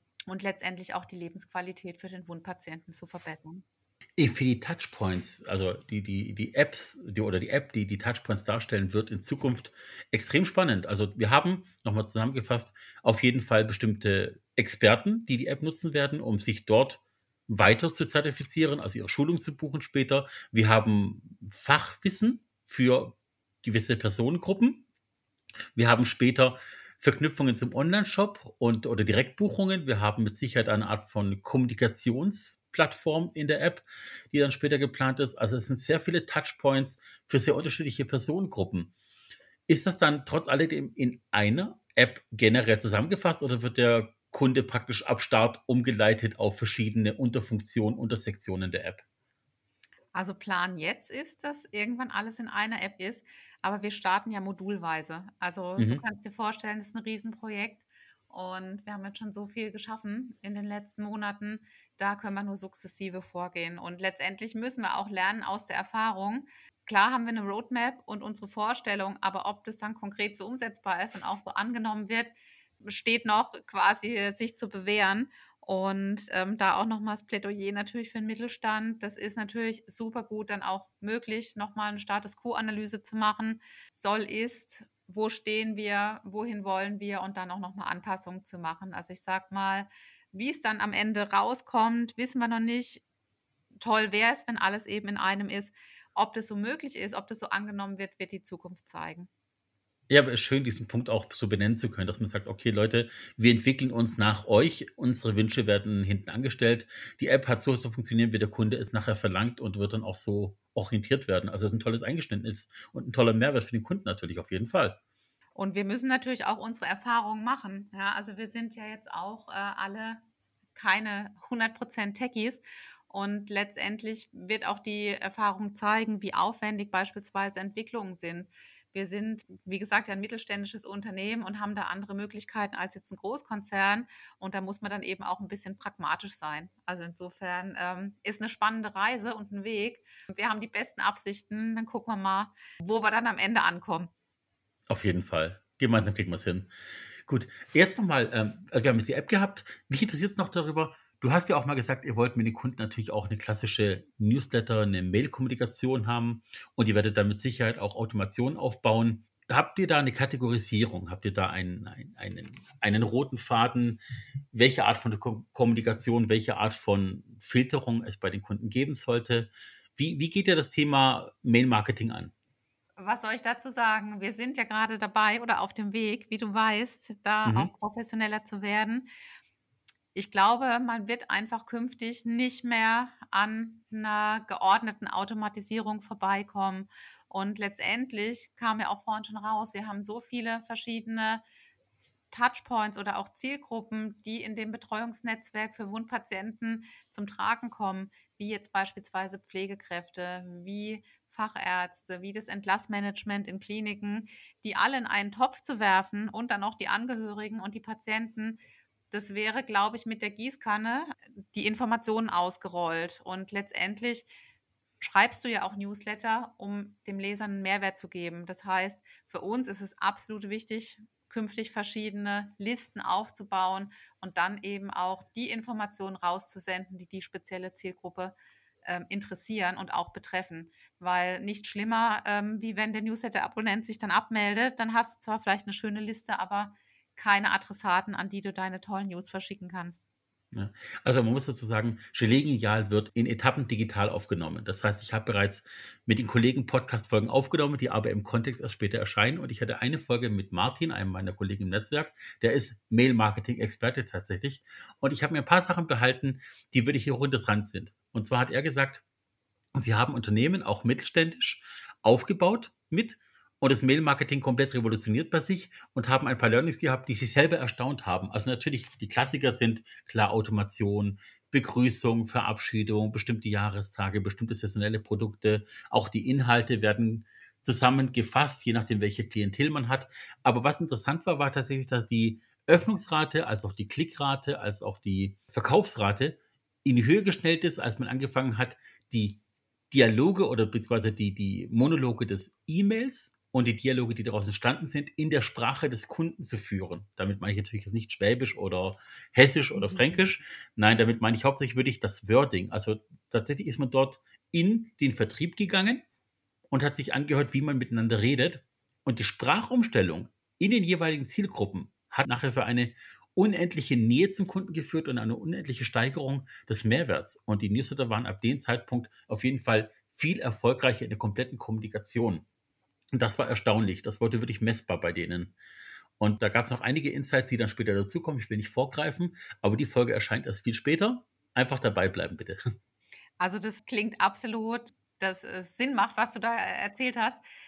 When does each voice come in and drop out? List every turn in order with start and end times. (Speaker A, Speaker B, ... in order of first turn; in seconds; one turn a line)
Speaker A: 0.3-3.6
Speaker B: 4.2-24.8
Speaker B: 25.8-38.9
Speaker B: 39.7-49.0
Speaker A: 50.1-93.0
Speaker B: 55.8-56.0
Speaker A: 93.8-99.3
Speaker B: 100.1-115.0
Speaker A: 115.5-120.2
Speaker A: 120.7-144.1
Speaker B: 144.9-146.7
Speaker B: 147.2-164.0
Speaker B: 164.5-172.3
Speaker A: 173.0-179.1
Speaker B: 177.4-177.7
Speaker A: 180.1-191.4
Speaker A: 192.3-208.6
Speaker A: 209.1-214.3
Speaker A: 215.0-240.0
Speaker B: 240.5-259.0
Speaker B: 259.7-289.4
Speaker B: 289.9-306.0
Speaker B: 306.7-322.4
Speaker B: 323.1-325.5
Speaker B: 326.2-332.6
Speaker A: 333.4-337.4